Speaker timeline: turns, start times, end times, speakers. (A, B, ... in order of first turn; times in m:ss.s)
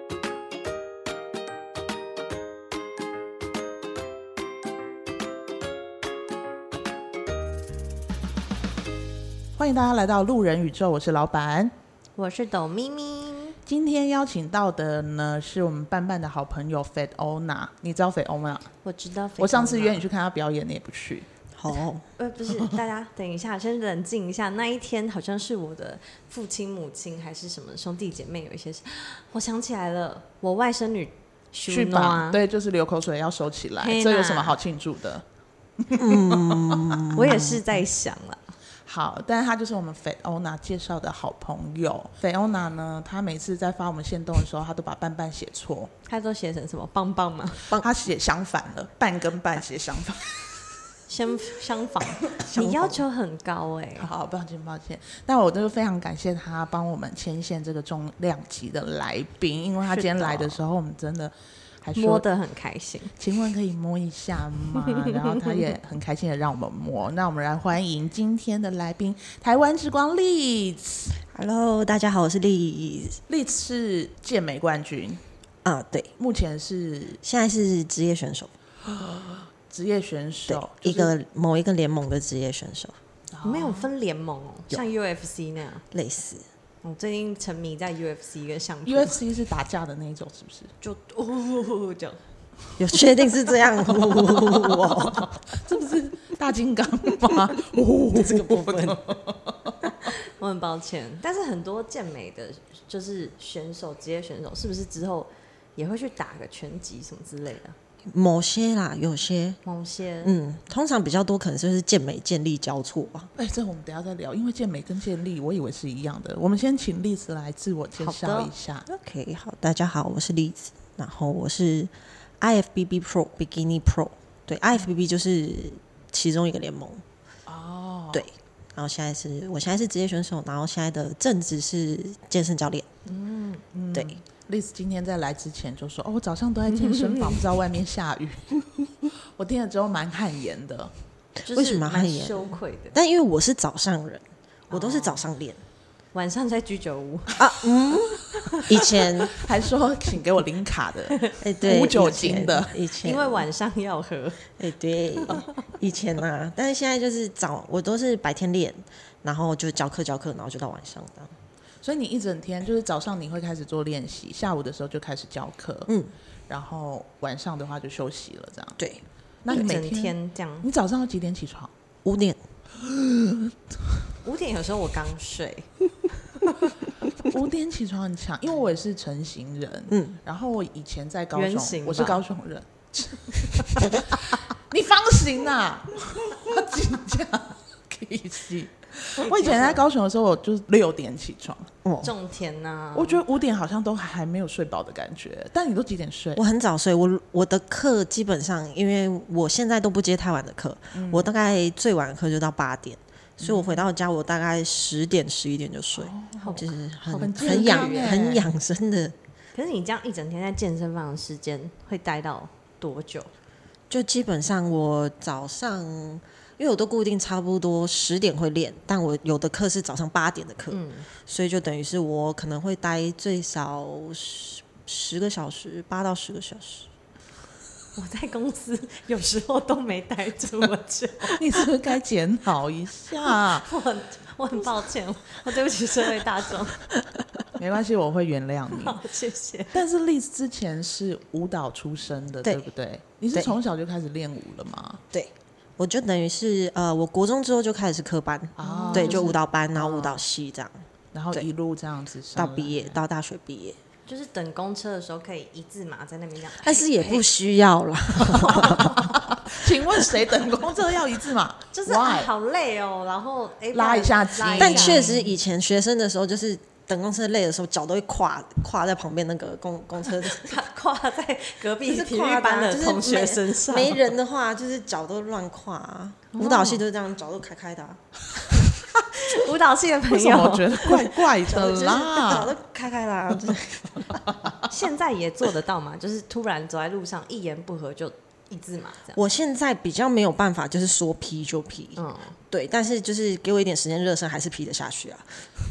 0:09.6-0:11.7 A
0:12.2-0:13.6 B
0:13.6-0:18.7 A
0:18.8-0:20.0 B
0:19.4-0:21.3 A
0:21.5-0:22.0 C
0:22.2-0:32.4 B
0:31.7-0:35.2 A
0:33.8-0:34.6 B
0:35.8-0:37.4 A
0:35.9-0:37.6 C
0:37.1-0:38.4 B
0:38.8-0:45.9 A
0:46.1-0:47.7 B
0:47.8-0:50.5 A
0:51.1-0:54.1 B
0:52.4-0:53.0 C
0:54.0-1:02.2 A
0:59.8-1:00.6 B
1:01.9-1:03.2 B
1:03.2-1:11.1 A
1:11.3-1:13.2 C
1:13.3-1:15.2 A
1:15.6-1:16.1 C
1:16.2-1:17.2 A
1:17.2-1:18.5 C
1:18.9-1:21.1 A
1:20.5-1:23.0 C
1:23.3-1:23.9 A
1:23.4-1:25.8 B
1:25.9-1:26.4 C
1:26.8-1:29.2 B
1:28.8-1:30.7 A
1:30.8-1:32.2 B
1:32.8-1:35.3 C
1:35.1-1:39.8 A
1:38.1-1:39.2 C
1:40.1-1:47.8 B
1:48.1-1:49.6 C
1:49.6-1:50.3 B
1:50.2-1:53.3 C
1:53.4-1:58.8 A
1:58.0-1:58.5 B
1:58.9-2:07.0 C
2:07.5-2:08.2 A
2:08.1-2:12.9 C
2:13.1-2:18.6 A
2:16.7-2:17.3 B
2:19.3-2:20.9 A
2:21.5-2:23.0 B
2:21.5-2:25.6 C
2:24.7-2:25.2 B
2:26.1-2:27.5 B
2:27.4-2:29.3 C
2:28.4-2:29.1 B
2:29.3-2:32.7 A
2:31.4-2:33.5 C
2:32.6-2:34.5 B
2:34.6-2:41.3 C
2:35.2-2:35.5 B
2:41.8-2:45.9 A
2:45.9-2:46.1 C
2:46.5-2:48.8 A
2:48.8-2:49.8 C
2:49.4-2:51.7 A
2:49.5-2:50.7 B
2:52.0-2:52.4 C
2:52.8-2:53.5 A
2:54.2-2:55.7 B
2:57.2-3:11.7 A
2:59.9-3:00.2 C
3:01.3-3:02.2 B
3:09.2-3:09.8 B
3:11.8-3:12.1 C
3:12.0-3:13.2 B
3:12.9-3:16.4 A
3:16.4-3:29.2 C
3:20.9-3:21.3 A
3:23.4-3:23.8 A
3:26.0-3:28.5 A
3:26.4-3:28.1 B
3:29.5-3:33.3 B
3:33.9-3:46.9 C
3:40.7-3:41.1 B
3:48.0-3:51.6 B
3:51.3-3:53.7 A
3:53.2-3:56.8 B
3:57.6-3:59.0 A
3:58.7-3:59.8 B
3:59.7-4:05.0 A
4:05.1-4:11.5 C
4:08.6-4:10.2 A
4:08.6-4:09.3 B
4:11.1-4:13.0 A
4:12.3-4:13.8 C
4:14.1-4:17.2 B
4:16.6-4:19.1 C
4:18.3-4:19.0 B
4:18.8-4:22.3 A
4:21.7-4:25.3 B
4:23.7-4:25.1 A
4:24.6-4:30.6 C
4:30.2-4:34.0 B
4:31.8-4:38.0 C
4:36.3-4:36.8 B
4:39.1-4:41.2 B
4:40.1-4:42.5 A
4:41.4-4:44.6 C
4:44.6-4:49.2 B
4:49.1-4:55.4 C
4:52.0-4:52.4 B